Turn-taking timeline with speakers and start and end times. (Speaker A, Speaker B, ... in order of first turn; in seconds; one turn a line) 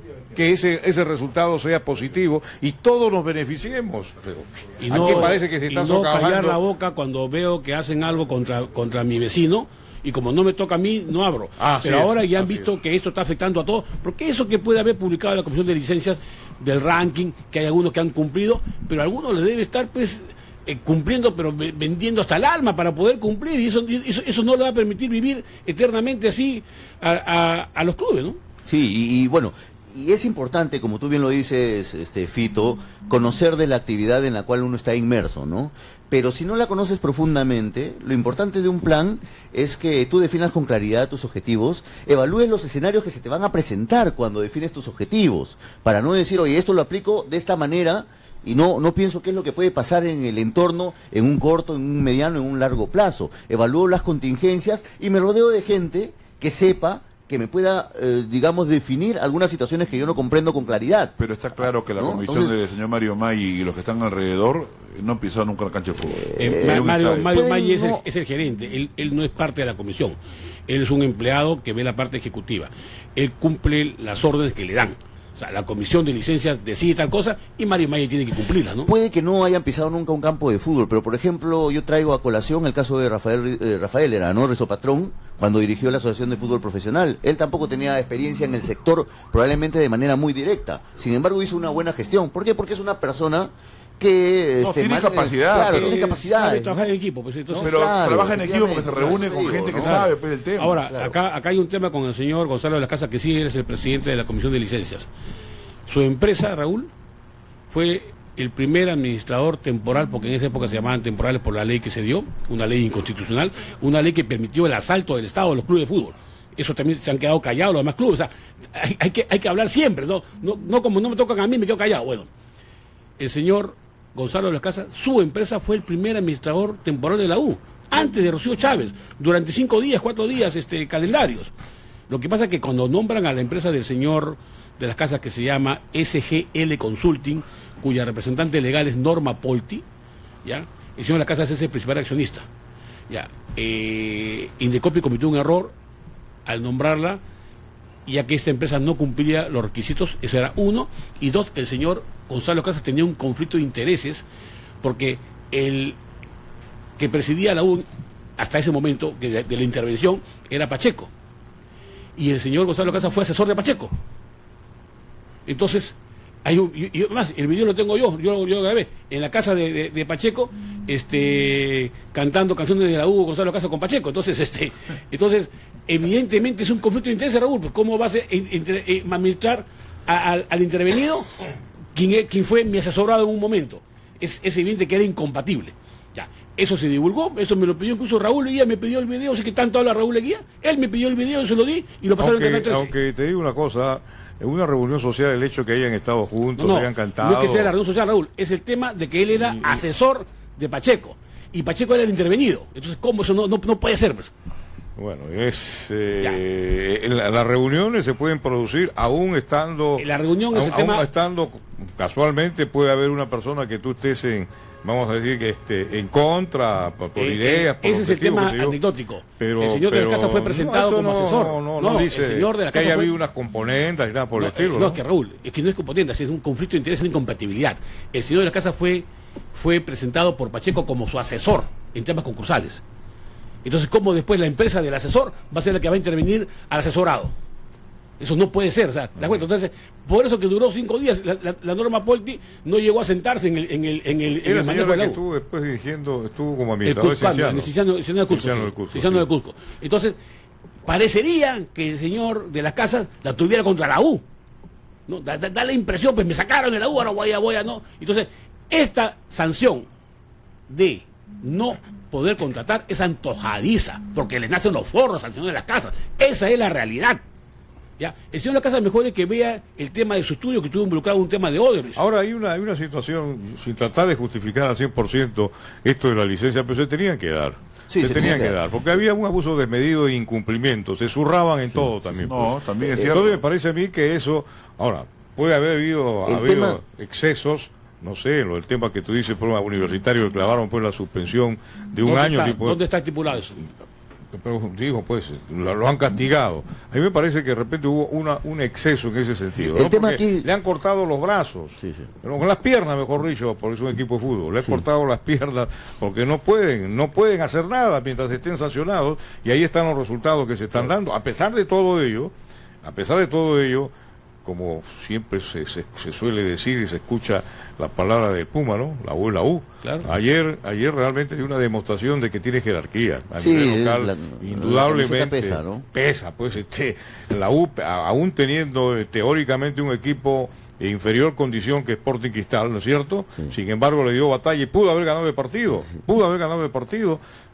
Speaker A: 0.3-6.6
Speaker B: 4.8-28.4
Speaker A: 11.6-12.7
Speaker C: 28.7-61.1
Speaker D: 61.2-67.3
Speaker C: 61.8-62.5
Speaker C: 66.1-68.0
Speaker B: 66.4-70.2
Speaker B: 70.7-78.9
Speaker C: 78.8-96.9
Speaker D: 94.6-96.1
Speaker B: 95.5-97.9
Speaker C: 97.5-100.0
Speaker D: 97.5-100.8
Speaker B: 99.7-105.1
Speaker C: 100.8-101.2
Speaker B: 105.9-106.9
Speaker B: 107.7-122.3
Speaker B: 123.2-131.5
Speaker B: 132.1-139.8
Speaker B: 140.4-142.5
Speaker B: 143.1-145.7
Speaker B: 146.5-147.2
Speaker B: 148.1-154.2
Speaker B: 154.8-156.0
Speaker B: 157.0-161.1
Speaker B: 162.2-163.9
Speaker B: 165.5-181.3
Speaker B: 181.9-192.9
Speaker A: 192.2-197.7
Speaker B: 196.6-204.3
Speaker A: 199.4-199.8
Speaker A: 205.0-218.8
Speaker B: 210.0-211.1
Speaker B: 217.2-223.2
Speaker A: 219.4-225.0
Speaker B: 224.3-232.8
Speaker B: 233.6-237.3
Speaker B: 238.2-245.2
Speaker A: 244.4-247.7
Speaker B: 246.8-250.2
Speaker A: 248.3-249.3
Speaker B: 250.9-254.2
Speaker B: 255.1-259.9
Speaker B: 260.7-267.2
Speaker B: 268.0-272.0
Speaker A: 272.0-292.8
Speaker C: 277.9-278.6
Speaker D: 282.1-283.4
Speaker C: 286.3-286.8
Speaker B: 292.0-293.6
Speaker A: 294.3-313.9
Speaker C: 299.6-300.5
Speaker C: 301.8-302.1
Speaker A: 314.4-337.2
Speaker B: 319.8-320.1
Speaker C: 323.4-325.9